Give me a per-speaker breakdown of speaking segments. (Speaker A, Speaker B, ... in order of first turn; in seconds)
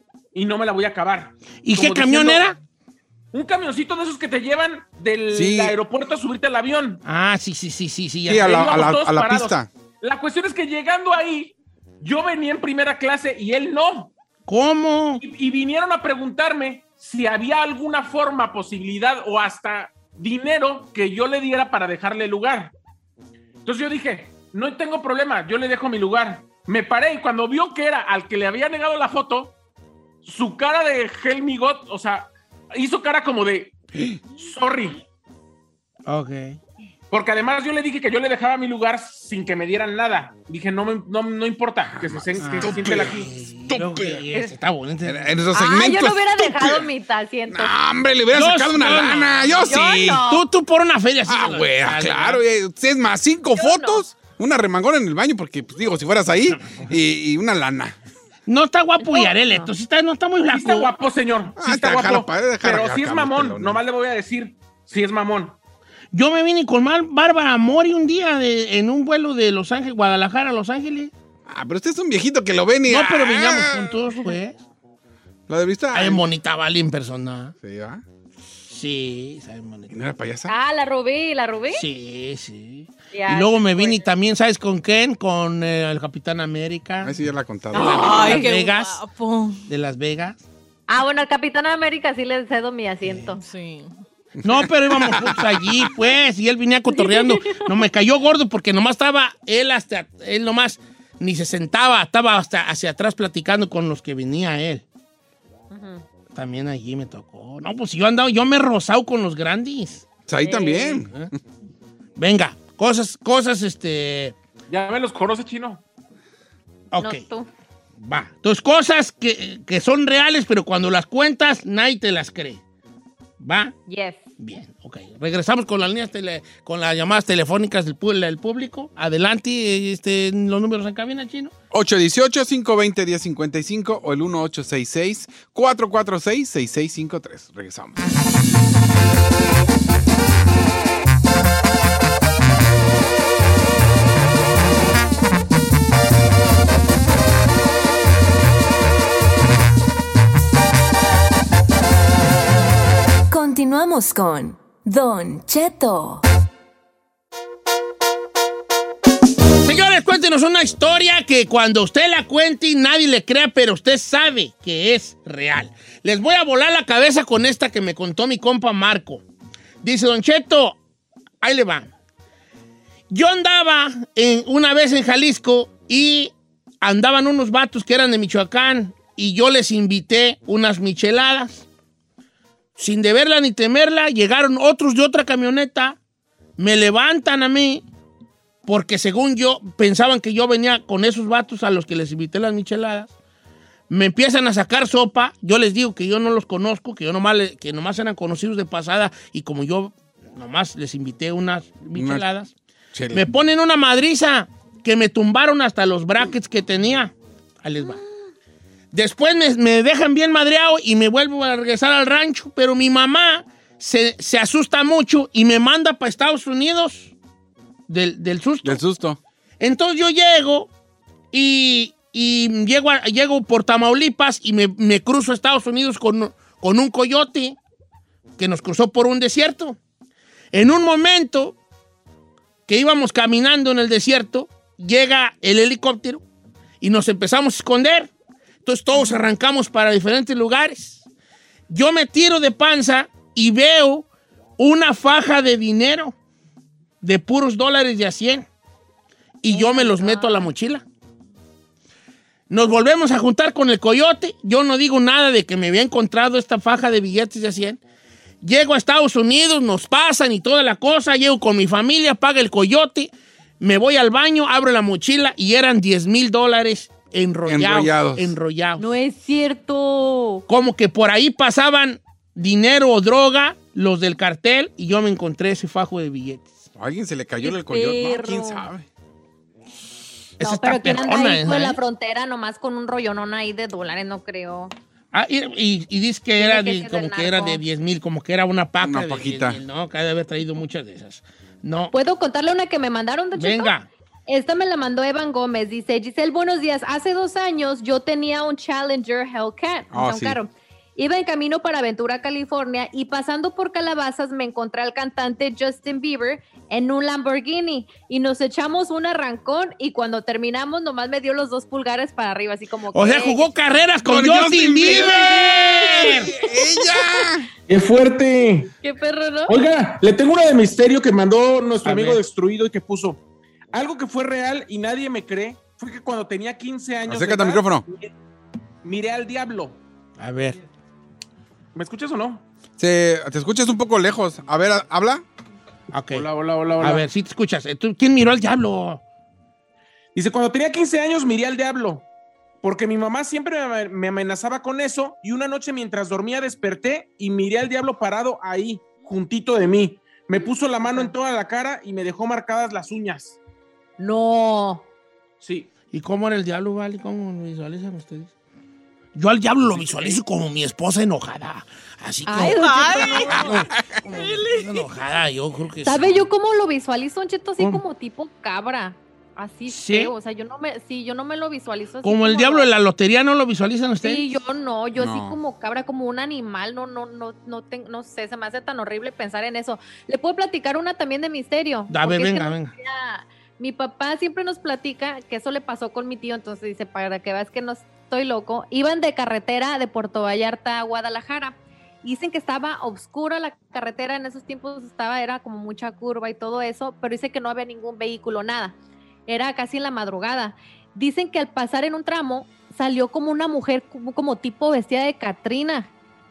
Speaker A: 0.3-2.5, 3.3-7.0, 8.4-14.1, 15.2-22.7, 23.6-29.5, 30.2-33.7, 34.4-35.0, 37.1-43.3, 60.5-65.5, 114.7-115.8, 317.7-318.7, 319.5-323.2, 323.7-328.1, 328.8-329.8, 331.7-332.4, 336.1-337.1, 340.1-342.0, 342.6-353.4, 355.4-355.7, 359.7-360.1
Speaker B: 1.6-2.6, 7.0-8.6, 14.5-15.2, 36.1-36.6, 42.4-45.3, 48.3-52.4, 56.6-56.9, 58.5-60.9, 66.1-71.1, 72.9-74.6, 75.9-77.5, 78.7-79.9, 81.7-89.0, 89.7-90.4, 93.0-93.3, 94.4-104.8, 106.3-110.0, 112.2-114.3, 116.9-117.2, 118.0-122.6, 123.4-123.7, 124.4-131.5, 159.6-169.2, 169.8-170.8, 171.4-171.9, 173.1-181.7, 182.8-186.0, 186.6-187.8, 188.7-193.1, 193.9-202.5, 203.1-208.0, 208.9-217.1, 217.9-218.8, 219.6-220.7, 221.3-227.6, 228.4-229.8, 230.5-231.6, 232.7-236.2, 236.8-238.1, 238.6-241.0, 241.7-244.1, 244.6-246.1, 247.0-248.5, 249.4-250.8, 252.5-257.8, 258.4-268.9, 270.5-276.5, 280.4-281.8, 285.1-291.9, 293.4-293.9, 312.9-316.3, 321.8-322.2, 330.2-330.6, 335.9-336.3, 336.8-339.0, 355.9-358.3, 359.1-366.2, 369.7-370.1, 372.0-374.2, 381.9-382.7
Speaker C: 5.3-5.7, 8.3-9.7, 33.9-34.2, 41.9-44.2, 45.0-46.9, 47.5-50.2, 51.3-58.0, 61.6-63.8, 71.5-74.0, 75.5-76.2, 77.6-78.0, 79.9-80.5, 87.0-88.4, 95.0-95.9, 110.3-111.1, 131.7-138.0, 201.9-202.2, 202.9-203.2, 218.6-219.2, 267.5-268.3, 276.8-278.9, 288.8-289.6, 299.9-300.4, 314.1-317.5, 327.1-327.9, 332.8-335.2, 363.3-364.0, 374.9-375.4
Speaker D: 45.5-47.7, 49.6-50.4, 53.6-54.1, 59.0-59.7, 80.5-81.8, 83.1-84.0, 87.7-88.5, 90.9-93.4, 96.9-97.6, 105.7-106.0, 110.4-111.0, 117.0-117.5, 123.9-124.2, 249.5-250.5, 268.8-270.4, 277.4-278.7, 280.4-284.7, 286.4-287.6, 291.9-293.7, 294.3-313.5, 314.9-317.0, 318.8-319.6, 350.4-351.1, 354.0-354.8, 362.3-364.4, 365.8-372.7, 374.0-398.8, 399.3-405.9
Speaker E: 88.0-89.6, 93.4-93.9, 362.4-363.5, 364.0-364.8
Speaker F: 153.3-156.2